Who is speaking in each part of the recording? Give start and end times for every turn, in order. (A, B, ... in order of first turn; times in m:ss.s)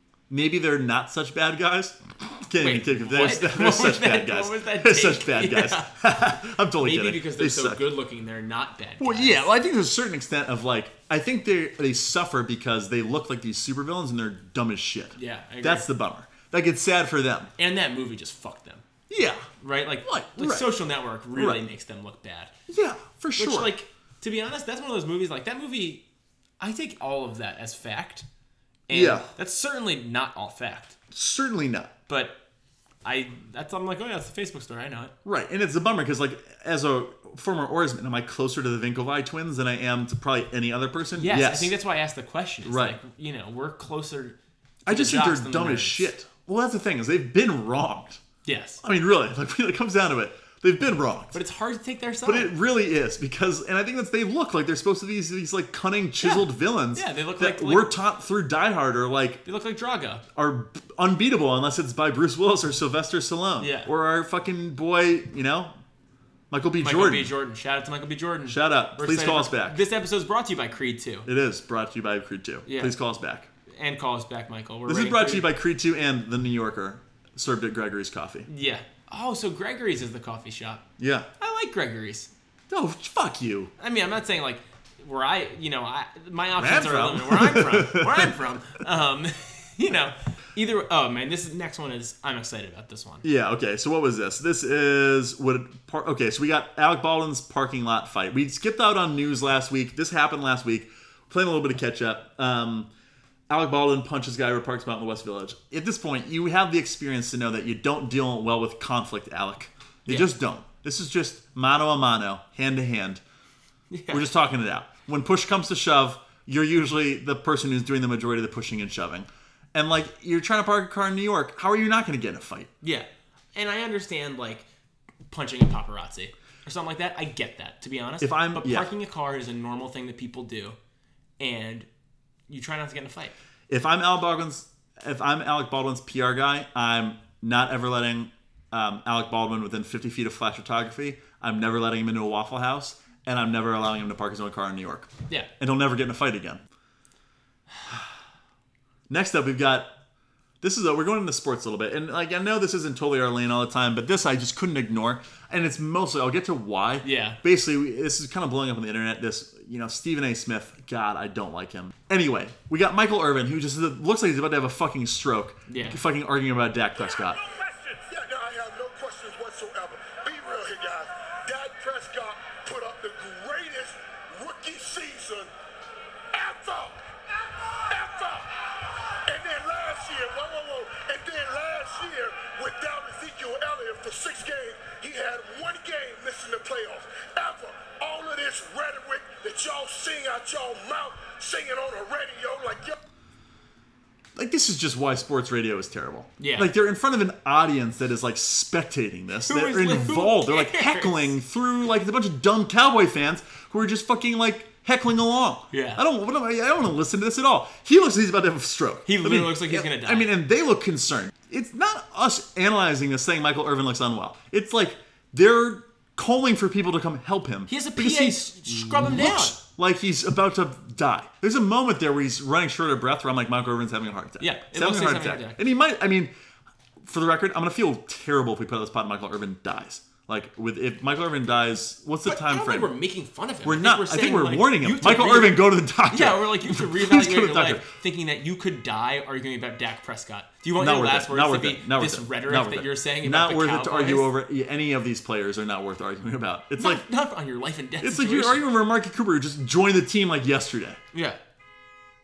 0:00.3-0:07.9 A
0:02.6-0:06.0 B
0:06.8-0:09.5 B
0:09.0-0:17.5 A
0:15.2-0:15.9 B
0:17.6-0:18.8 B
0:19.1-0:19.5 A
0:19.6-0:22.5 B
0:20.0-0:20.7 A
0:21.4-0:21.6 A
0:22.7-0:23.7 A
0:23.4-0:26.0 B
0:26.6-0:28.3 B
0:28.9-0:31.0 B
0:28.9-0:29.3 A
0:31.1-0:31.9 A
0:32.1-0:32.4 B
0:33.0-0:35.1 B
0:35.2-0:41.7 A
0:41.2-0:46.1 B
0:42.6-0:43.0 A
0:44.9-0:48.2 A
0:48.4-0:48.8 B
0:48.8-0:51.4 A
0:51.3-0:52.5 B
0:52.2-0:59.4 A
0:56.2-0:57.9 B
0:59.4-1:00.2 B
1:00.4-1:05.8 A
1:03.6-1:03.9 B
1:06.5-1:07.3 A
1:06.8-1:11.3 B
1:08.5-1:09.8 A
1:11.3-1:13.5 A
1:12.7-1:12.9 B
1:13.7-1:15.5 B
1:14.9-1:18.5 A
1:18.5-1:20.8 B
1:21.0-1:21.3 A
1:21.4-1:22.3 B
1:22.7-1:23.7 A
1:23.8-1:33.3 B
1:26.6-1:28.3 A
1:33.2-1:42.9 A
1:43.5-1:53.2 A
1:53.9-1:54.3 B
1:54.1-2:02.7 A
2:02.8-2:04.6 B
2:05.3-2:10.8 B
2:08.2-2:08.9 A
2:11.4-2:11.9 B
2:12.5-2:13.4 B
2:13.7-2:26.6 A
2:29.1-2:29.9 A
2:30.6-2:47.4 A
2:37.0-2:37.4 B
2:45.7-2:46.0 B
2:47.2-2:55.5 C
2:56.3-2:57.1 C
2:57.9-2:58.5 C
2:59.3-3:13.0 C
3:14.4-3:46.3 A
3:16.4-3:16.7 B
3:19.5-3:21.4 B
3:25.7-3:26.0 B
3:29.1-3:30.3 B
3:37.7-3:39.6 B
3:44.4-3:45.6 B
3:47.0-3:52.9 A
3:52.2-4:04.3 B
3:53.6-3:57.9 A
4:00.8-4:07.0 A
4:06.8-4:08.6 B
4:08.0-4:11.0 A
4:11.1-4:11.4 B